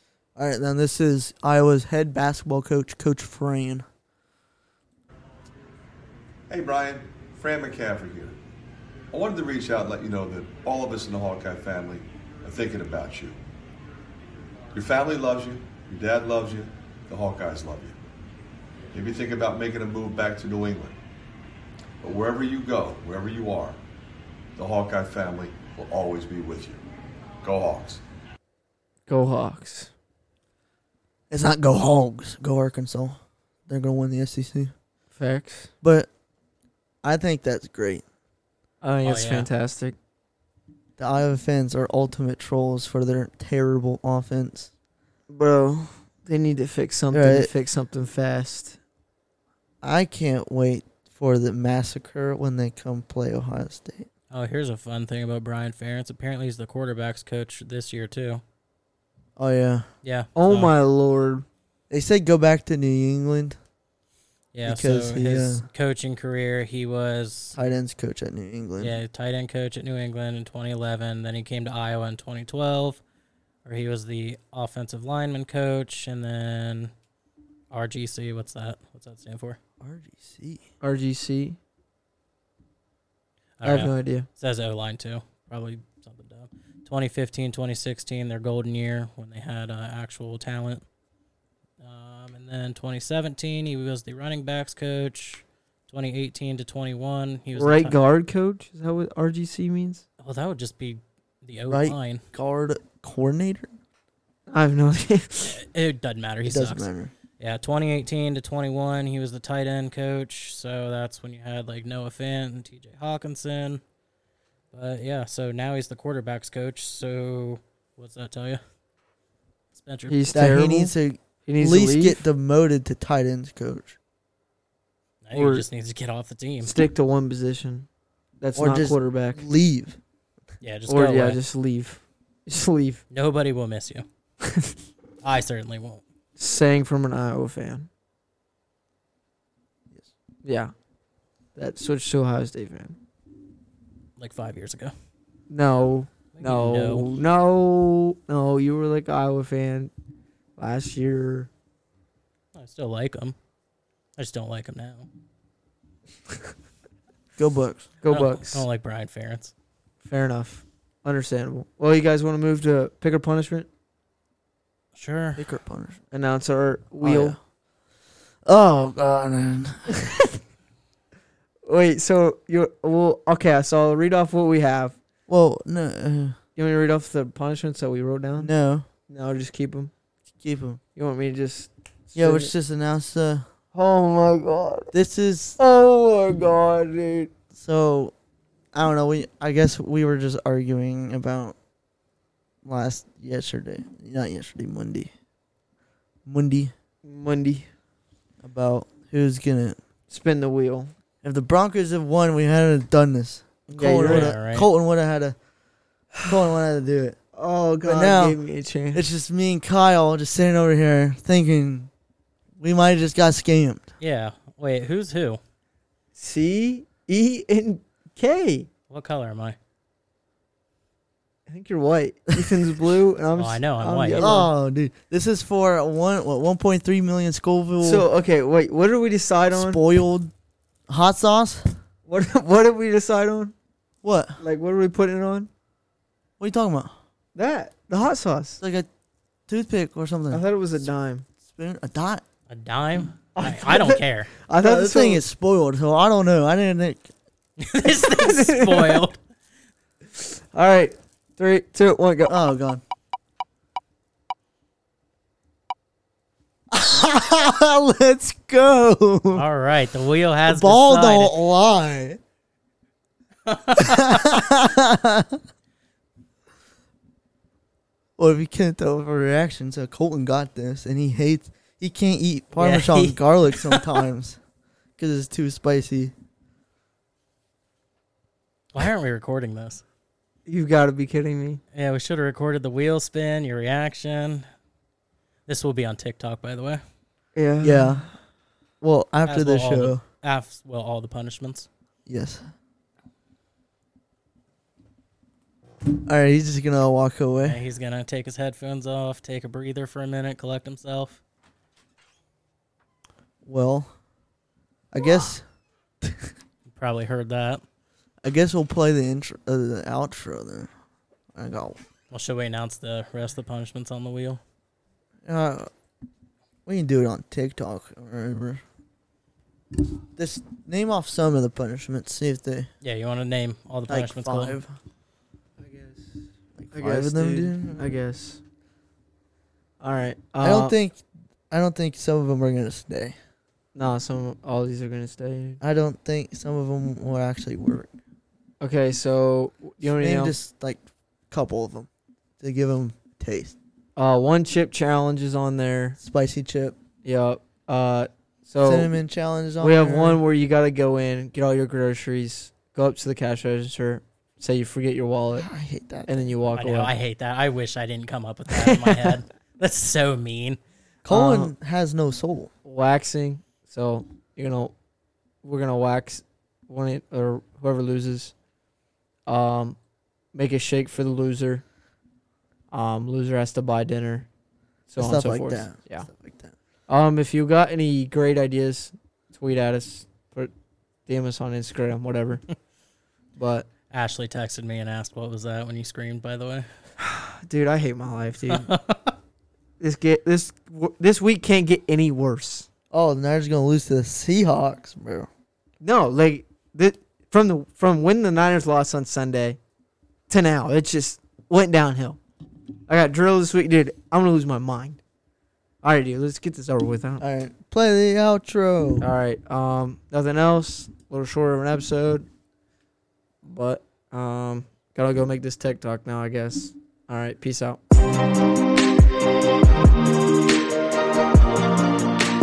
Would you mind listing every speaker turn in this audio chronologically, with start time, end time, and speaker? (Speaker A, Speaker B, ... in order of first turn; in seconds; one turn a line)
Speaker A: 0.3-3.9
Speaker B: 6.5-8.4
Speaker B: 9.1-13.4
Speaker B: 14.7-17.9
Speaker B: 18.9-21.0
Speaker B: 22.0-23.8
Speaker B: 24.6-26.8
Speaker B: 27.4-28.0
Speaker C: 29.1-29.9
Speaker A: 31.3-34.7
Speaker C: 35.1-35.7
Speaker A: 35.8-36.1
Speaker A: 37.0-38.0
Speaker C: 38.8-40.0
Speaker D: 39.0-39.5
Speaker A: 41.0-44.7
Speaker C: 45.3-48.8
Speaker A: 47.1-47.5
Speaker A: 49.8-54.1
Speaker D: 54.3-58.4
Speaker A: 59.4-59.9
Speaker D: 60.0-60.7
Speaker C: 60.3-61.5
Speaker A: 61.9-63.6
Speaker D: 64.5-67.6
Speaker A: 64.7-65.7
Speaker A: 67.5-69.0
Speaker D: 68.8-73.0
Speaker D: 73.6-76.9
Speaker D: 77.7-79.6
Speaker A: 79.8-80.7
Speaker C: 80.8-81.6
Speaker D: 83.6-90.8
Speaker C: 83.6-84.3
Speaker D: 91.8-98.0
Speaker C: 97.5-100.0
Speaker D: 100.2-102.2
Speaker A: 101.7-103.7
Speaker C: 104.5-105.6
Speaker D: 105.4-113.8
Speaker A: 106.4-107.1
Speaker D: 114.7-118.6
Speaker D: 119.7-120.3
Speaker C: 120.1-120.9
Speaker A: 120.3-124.0
Speaker C: 121.5-122.2
Speaker D: 125.2-126.8
Speaker C: 125.3-125.6
Speaker C: 126.6-127.9
Speaker C: 128.4-129.4
Speaker A: 128.6-130.0
Speaker D: 130.6-131.4
Speaker C: 130.9-133.0
Speaker D: 133.1-134.0
Speaker C: 134.5-134.7
Speaker D: 135.2-136.0
Speaker C: 136.4-137.9
Speaker C: 140.4-140.7
Speaker C: 141.5-143.0
Speaker D: 144.2-144.9
Speaker C: 145.5-149.9
Speaker D: 146.3-147.1
Speaker C: 150.6-151.5
Speaker D: 152.5-153.3
Speaker D: 154.2-155.1
Speaker A: 157.4-157.9
Speaker C: 158.0-158.6
Speaker D: 158.1-159.5
Speaker C: 160.0-163.7
Speaker D: 164.9-165.4
Speaker A: 165.4-166.0
Speaker C: 166.1-167.4
Speaker A: 167.0-167.4
Speaker A: 168.4-170.0
Speaker C: 171.7-175.0
Speaker A: 175.3-176.4
Speaker C: 176.6-178.5
Speaker A: 178.4-178.8
Speaker C: 179.1-179.9
Speaker A: 180.4-180.8
Speaker C: 180.9-182.5
Speaker A: 182.2-183.5
Speaker C: 183.7-184.9
Speaker A: 184.9-185.6
Speaker C: 185.6-187.3
Speaker A: 187.5-188.1
Speaker A: 188.7-191.6
Speaker A: 192.6-195.1
Speaker A: 196.2-196.7
Speaker C: 197.0-197.7
Speaker A: 198.4-199.8
Speaker C: 200.1-200.9
Speaker A: 201.2-205.3
Speaker C: 203.7-204.3
Speaker D: 204.1-204.7
Speaker A: 206.2-207.2
Speaker C: 207.3-209.1
Speaker A: 207.8-208.4
Speaker A: 208.9-211.9
Speaker A: 212.6-213.9
Speaker D: 214.0-215.4
Speaker C: 216.1-218.7
Speaker D: 218.9-219.6
Speaker C: 221.5-224.5
Speaker D: 223.4-224.3
Speaker A: 224.1-228.1
Speaker C: 227.8-229.8
Speaker A: 229.5-230.3
Speaker A: 230.9-231.8
Speaker C: 232.1-233.5
Speaker A: 234.0-234.4
Speaker C: 234.4-235.5
Speaker A: 236.4-236.9
Speaker C: 237.3-238.6
Speaker A: 238.6-238.9
Speaker A: 239.5-240.4
Speaker C: 240.3-241.2
Speaker A: 241.4-242.2
Speaker D: 242.5-244.3
Speaker C: 243.3-245.2
Speaker A: 244.6-247.1
Speaker D: 247.6-249.2
Speaker C: 248.0-249.0
Speaker C: 250.2-252.3
Speaker A: 252.3-252.8
Speaker A: 256.7-259.4
Speaker D: 259.3-261.3
Speaker A: 260.4-262.2
Speaker D: 263.4-264.3
Speaker A: 263.8-265.4
Speaker A: 268.2-274.4
Speaker C: 272.5-273.2
Speaker A: 275.0-276.1
Speaker D: 278.7-279.8
Speaker C: 280.5-281.6
Speaker D: 281.7-284.4
Speaker D: 285.5-286.8
Speaker C: 287.3-288.1
Speaker A: 287.6-288.1
Speaker A: 288.8-290.0
Speaker D: 289.2-291.7
Speaker A: 292.1-292.4
Speaker A: 295.9-297.6
Speaker D: 297.4-301.2
Speaker A: 303.4-303.9
Speaker A: 304.9-305.4
Speaker A: 306.0-306.3
Speaker D: 306.7-307.6
Speaker A: 308.2-310.7
Speaker A: 311.3-311.8
Speaker D: 312.1-314.4
Speaker A: 315.2-315.7
Speaker A: 316.6-318.6
Speaker A: 320.1-322.7
Speaker D: 322.8-324.6
Speaker A: 323.9-324.7
Speaker C: 325.6-328.4
Speaker A: 326.6-327.9
Speaker C: 329.8-330.8
Speaker A: 330.4-333.2
Speaker C: 333.7-335.6
Speaker A: 335.6-337.9
Speaker C: 338.6-340.4
Speaker A: 339.8-341.9
Speaker A: 342.4-343.5
Speaker C: 343.9-346.0
Speaker A: 346.0-346.8
Speaker C: 347.0-348.9
Speaker A: 348.6-350.2
Speaker C: 349.6-355.5
Speaker A: 355.3-356.3
Speaker C: 356.1-356.9
Speaker D: 356.5-360.6
Speaker C: 358.5-359.1
Speaker A: 361.0-362.5
Speaker C: 361.1-361.5
Speaker C: 362.6-364.7
Speaker C: 365.4-368.3
Speaker C: 369.3-369.8
Speaker C: 370.3-371.6
Speaker C: 372.7-374.3
Speaker C: 374.9-376.1
Speaker A: 375.0-376.5
Speaker C: 376.9-380.5
Speaker C: 381.1-382.4
Speaker C: 383.4-383.7
Speaker D: 383.9-386.7
Speaker C: 387.0-388.7
Speaker D: 388.5-389.1
Speaker C: 389.8-392.7
Speaker A: 392.9-395.3
Speaker C: 395.8-399.6
Speaker C: 400.3-402.2
Speaker C: 402.9-405.0
Speaker C: 405.8-407.2
Speaker A: 407.2-409.1
Speaker C: 409.0-412.3
Speaker C: 413.4-417.8